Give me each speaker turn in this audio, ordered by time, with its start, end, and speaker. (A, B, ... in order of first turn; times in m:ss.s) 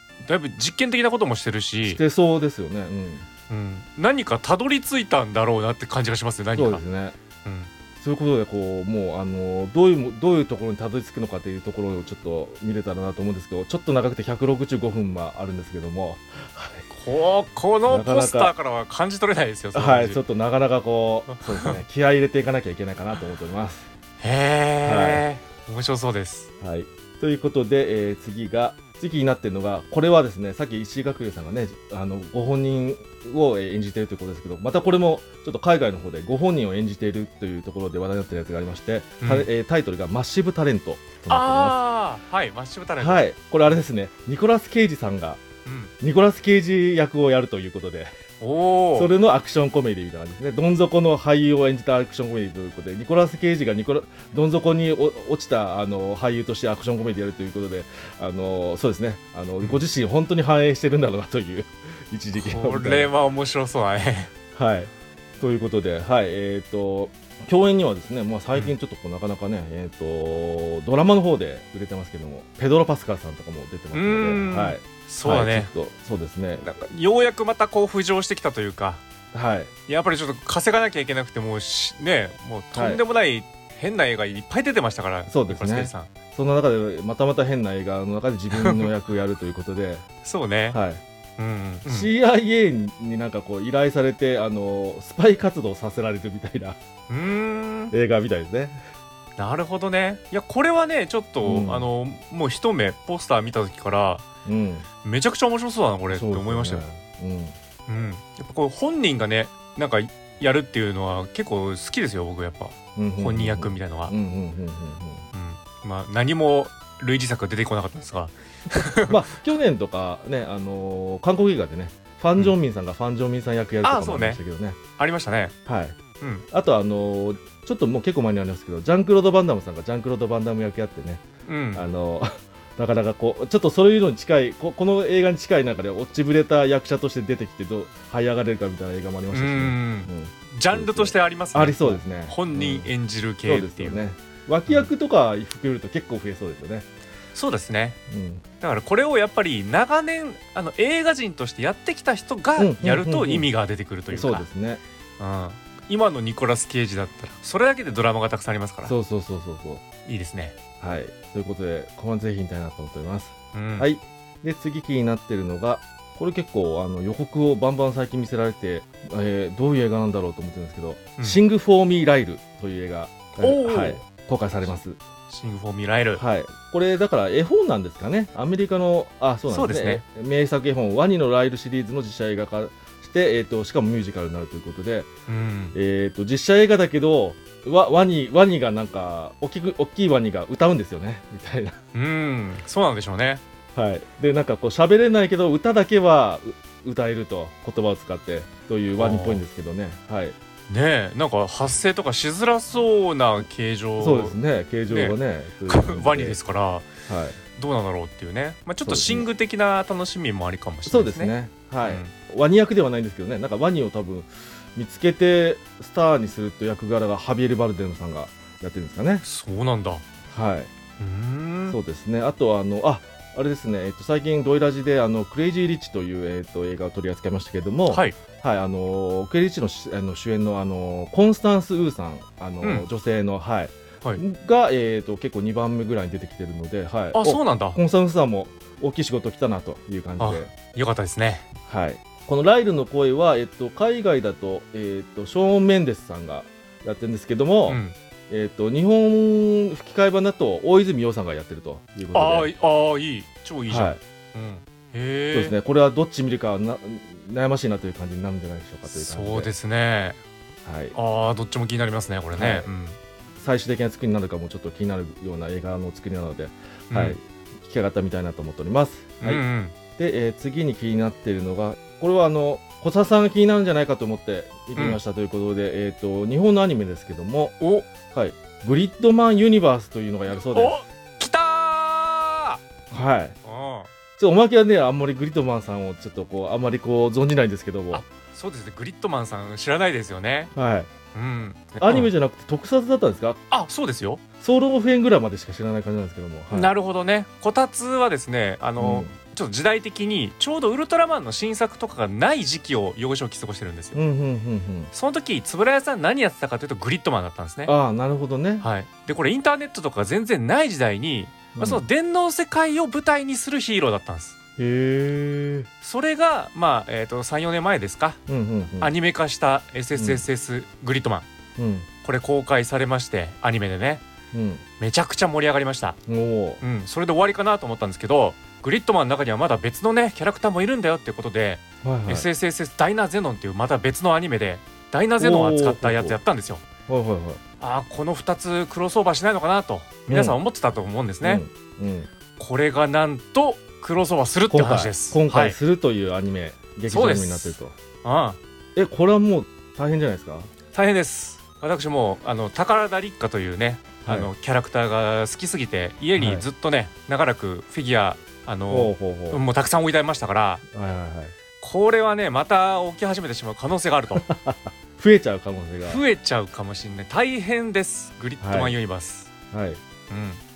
0:00.2-0:02.0 A
0:01.8-0:03.3 B
0:03.5-0:06.8 A
0:06.5-0:07.2 B
0:07.4-0:07.7 A
0:08.0-0:16.9 B
0:16.9-0:20.2 A
0:17.9-0:18.5 B
0:19.7-0:23.9 B
0:24.2-0:26.5 A
0:24.8-0:25.3 B
0:26.6-0:41.8 B
0:39.2-0:39.5 A
0:41.3-0:43.8 A
0:43.0-0:45.4 B
0:45.6-0:45.9 A
0:46.0-0:48.1 B
0:48.4-0:49.1 A
0:48.9-1:03.1 B
1:02.3-1:04.3 A
1:04.5-1:16.7 B
1:13.9-1:15.7 A
1:16.6-1:19.0 A
1:19.3-1:19.7 B
1:19.9-1:26.1 A
1:22.7-1:23.0 B
1:25.3-1:30.0 B
1:30.2-1:30.8 A
1:30.7-1:31.0 B
1:31.4-1:32.1 A
1:31.8-1:36.8 B
1:37.1-1:37.9 A
1:37.9-1:38.8 B
1:39.4-1:44.2 A
1:41.4-1:41.9 B
1:44.4-1:44.8 B
1:45.0-1:46.8 A
1:46.1-1:47.5 B
1:47.9-1:54.1 A
1:53.0-1:55.2 B
1:55.3-1:59.2 A
1:59.1-2:04.8 B
2:03.8-2:04.4 A
2:05.0-2:05.5 A
2:05.6-2:06.0 B
2:06.2-2:06.4 A
2:06.5-2:22.9 B
2:11.4-2:11.8 A
2:19.3-2:24.0 A
2:23.4-2:26.9 B
2:27.3-2:28.0 A
2:28.1-2:28.4 B
2:28.6-2:34.4 A
2:32.6-2:33.5 B
2:34.1-2:34.8 B
2:35.2-2:38.9 A
2:38.8-2:39.8 B
2:40.0-2:40.6 A
2:40.8-2:55.0 B
2:43.5-2:43.9 A
2:53.4-2:54.0 A
2:55.3-2:56.2 A
2:56.2-3:05.1 B
2:59.5-3:00.0 A
3:05.3-3:05.8 A
3:05.7-3:11.8 B
3:11.9-3:13.4 A
3:13.7-3:20.3 B
3:19.0-3:19.4 A
3:20.7-3:24.4 A
3:23.4-3:26.4 B
3:24.9-3:26.9 A
3:27.1-3:27.4 B
3:27.5-3:32.1 A
3:28.8-3:29.3 B
3:30.8-3:39.2 B
3:39.2-3:40.0 A
3:40.3-3:40.7 B
3:41.0-3:41.8 A
3:41.7-4:00.5 B
3:47.9-3:48.2 A
3:57.1-3:57.8 A
4:00.2-4:01.5 A
4:01.7-4:12.5 B
4:07.7-4:07.9 A
4:12.1-4:15.6 A
4:13.7-4:14.0 B
4:15.3-4:19.5 B
4:18.8-4:20.2 A
4:20.6-4:21.0 B
4:20.9-4:23.0 A
4:22.3-4:22.7 B
4:23.4-4:29.4 B
4:26.9-4:27.2 A
4:29.2-4:29.7 A
4:30.0-4:37.6 B
4:37.6-4:37.9 A
4:38.1-4:40.8 B
4:40.5-4:42.6 A
4:42.9-4:43.4 B
4:43.4-4:43.9 A
4:44.2-4:48.0 B
4:47.9-4:50.5 A
4:50.5-4:50.9 B
4:51.1-4:52.1 A
4:51.8-4:53.4 B
4:53.5-4:54.2 A
4:54.4-4:56.7 B
4:56.5-5:04.0 A
4:58.8-4:59.1 B
5:03.9-5:04.9 B
5:04.9-5:07.7 A
5:07.6-5:08.6 B
5:08.6-5:14.3 A
5:11.5-5:11.8 B
5:14.6-5:15.7 B
5:15.8-5:18.2 A
5:18.3-5:18.9 B
5:18.8-5:21.3 A
5:19.9-5:20.2 B
5:21.6-5:21.9 B
5:22.0-5:24.0 A
5:24.3-5:24.6 B
5:24.8-5:26.0 A
5:26.1-5:26.6 B
5:26.6-5:36.6 A
5:31.8-5:32.3 B
5:35.2-5:36.2 B
5:36.9-5:37.4 B
5:37.6-5:41.4 A
5:40.1-5:40.4 B
5:41.2-5:42.1 B
5:42.4-5:45.6 A
5:44.5-5:47.7 B
5:46.9-5:48.4 A
5:48.8-5:50.5 B
5:50.7-6:00.6 A
5:54.0-5:54.3 B
5:56.1-5:56.5 B
5:58.7-5:59.4 B
6:00.7-6:01.3 B
6:01.6-6:04.2 A
6:04.2-6:06.0 B
6:05.8-6:09.3 A
6:08.4-6:08.8 B
6:09.5-6:09.8 B
6:10.1-6:10.4 A